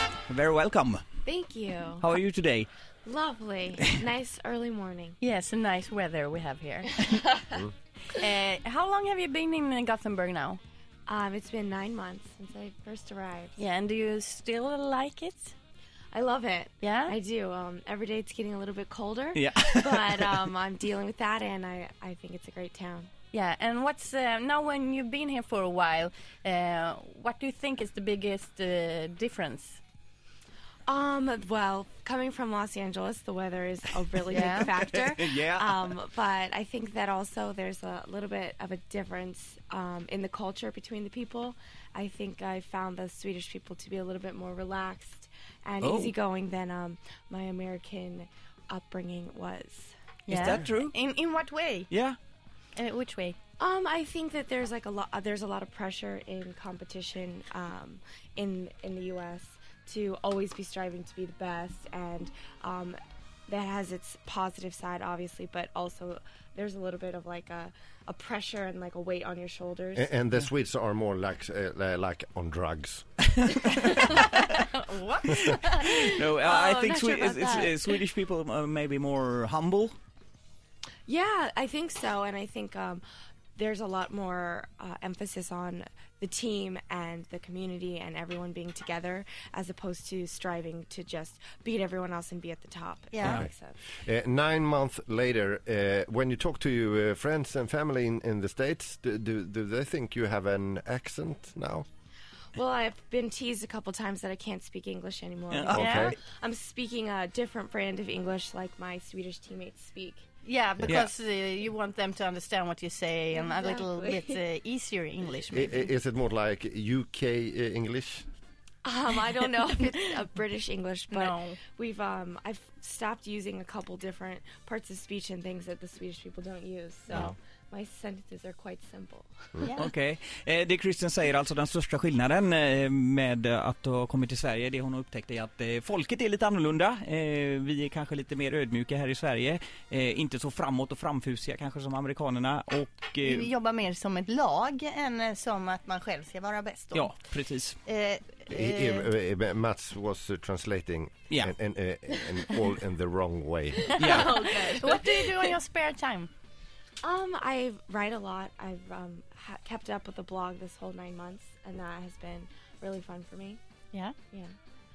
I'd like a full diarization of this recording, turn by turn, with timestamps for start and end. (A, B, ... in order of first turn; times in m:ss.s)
0:00.3-0:01.0 A
0:01.2-0:02.1 B
0:02.0-0:02.7 A
0:03.0-0:05.2 B
0:05.2-0:07.2 C
0:07.0-0:07.6 B
0:08.1-0:10.6 C
0:11.1-0:13.6 B
0:13.6-0:15.5 C
0:16.1-0:23.1 B
0:16.8-0:17.1 C
0:19.3-0:20.5 A
0:23.3-0:29.8 C
0:30.9-0:50.6 B
0:34.3-0:34.7 C
0:34.3-0:35.9 A
0:45.8-0:46.1 A
0:50.3-0:51.9 C
0:50.3-0:50.9 A
0:51.9-0:52.2 A
0:52.8-0:53.4 C
0:53.6-1:03.0 B
1:03.5-1:10.1 B
1:10.0-1:13.1 D
1:14.5-1:17.7 C
1:15.6-1:19.9 A
1:16.4-1:17.7 B
1:21.1-1:23.0 B
1:23.6-1:33.8 B
1:33.1-1:33.4 C
1:34.0-1:41.8 D
1:42.6-1:50.2 B
1:45.5-1:45.8 A
1:45.7-1:46.2 D
1:45.7-1:46.1 C
1:50.4-1:55.9 C
1:50.8-1:51.1 A
1:53.3-1:54.4 B
1:55.5-1:58.3 D
1:58.8-2:09.7 B
2:01.1-2:01.6 C
2:09.6-2:09.9 C
2:09.8-2:23.5 A
2:23.2-2:27.2 C
2:26.9-2:27.8 A
2:27.8-2:29.1 C
2:28.5-2:34.0 D
2:33.8-2:35.5 B
2:34.0-2:36.3 C
2:34.0-2:34.3 A
2:37.0-2:43.6 B